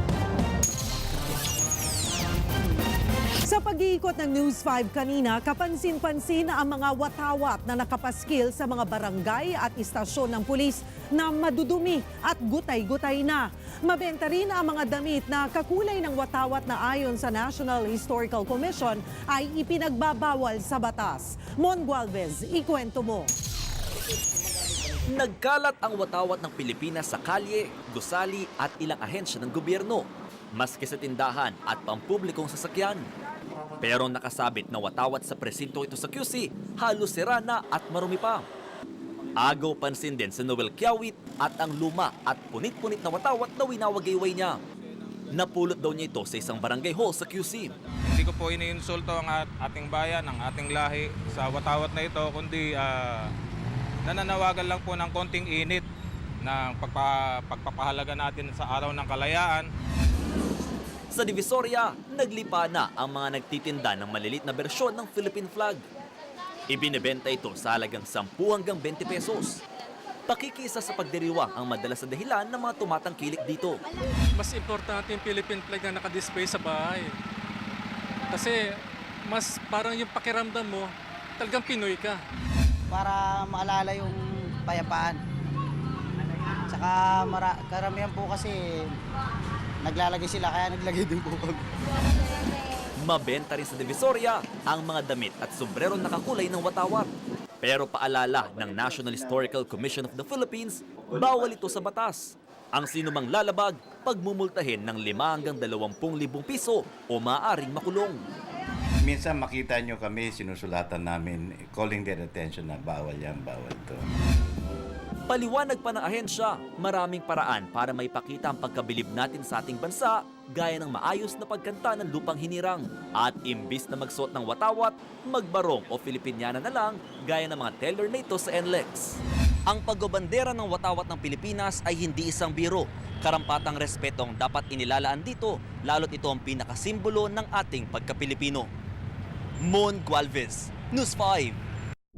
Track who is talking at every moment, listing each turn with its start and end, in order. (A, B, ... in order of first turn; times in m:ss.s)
0:03.4-0:23.3 A
0:25.0-0:33.1 B
0:33.8-0:38.4 B
0:39.4-0:44.6 B
0:45.3-0:47.7 B
0:48.0-0:53.3 C
0:54.0-0:55.9 C
0:56.4-0:59.7 C
1:01.1-1:05.8 B
1:06.7-1:09.6 B
1:10.3-1:13.8 B
1:14.3-1:17.2 D
1:18.3-1:22.2 D
1:22.9-1:25.2 E
1:26.7-1:29.0 E
1:29.8-1:31.6 E
1:33.0-1:37.1 B
1:37.6-1:48.2 B
1:49.0-1:54.1 F
1:55.3-2:18.7 B
2:19.6-2:21.6 B